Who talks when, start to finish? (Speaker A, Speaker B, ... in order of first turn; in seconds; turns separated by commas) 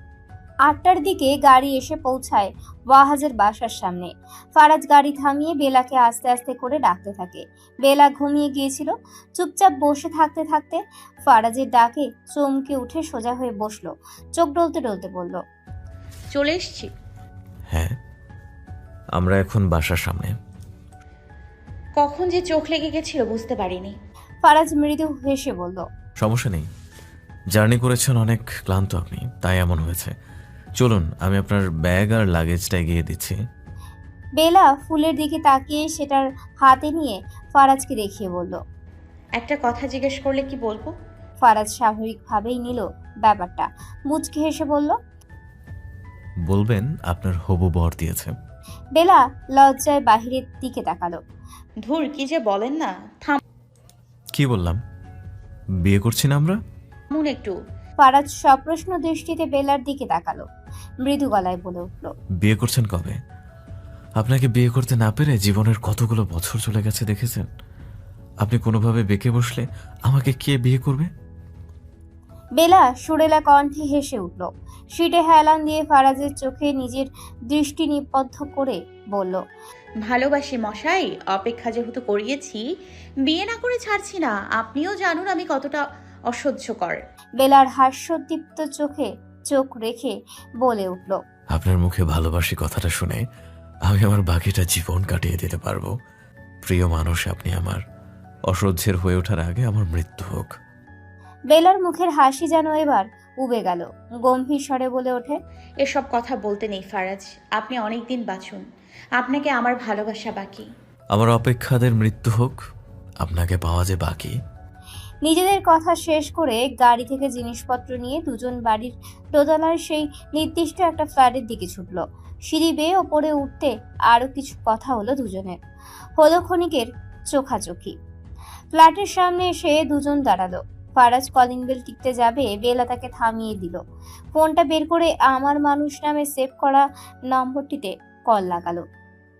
Speaker A: 0.7-15.4, Speaker B: 16.3-16.9, Speaker C: 19.1-20.4, Speaker B: 22.0-24.0, Speaker A: 24.4-25.8, Speaker C: 26.2-26.7, Speaker C: 27.5-30.1, Speaker C: 30.8-33.4, Speaker A: 34.4-38.6, Speaker B: 39.4-40.9, Speaker A: 41.4-45.0, Speaker C: 46.5-48.3, Speaker A: 49.0-51.2, Speaker B: 51.8-53.4, Speaker C: 54.3-54.8, Speaker C: 55.8-56.6, Speaker B: 57.1-57.5, Speaker A: 58.0-60.5, Speaker A: 61.0-62.1, Speaker C: 62.4-63.2, Speaker C: 64.2-67.5, Speaker C: 68.4-71.1, Speaker A: 72.6-79.4, Speaker B: 80.0-82.6, Speaker B: 83.2-87.0, Speaker A: 87.4-91.2, Speaker C: 91.5-93.2, Speaker C: 93.9-95.9, Speaker C: 96.6-97.8, Speaker C: 98.5-100.5, Speaker A: 101.5-105.4, Speaker B: 105.8-108.6, Speaker B: 109.2-110.7, Speaker C: 111.1-112.6, Speaker C: 113.2-114.4, Speaker A: 115.2-125.6, Speaker A: 126.2-128.0, Speaker A: 128.7-133.8, Speaker A: 134.3-138.8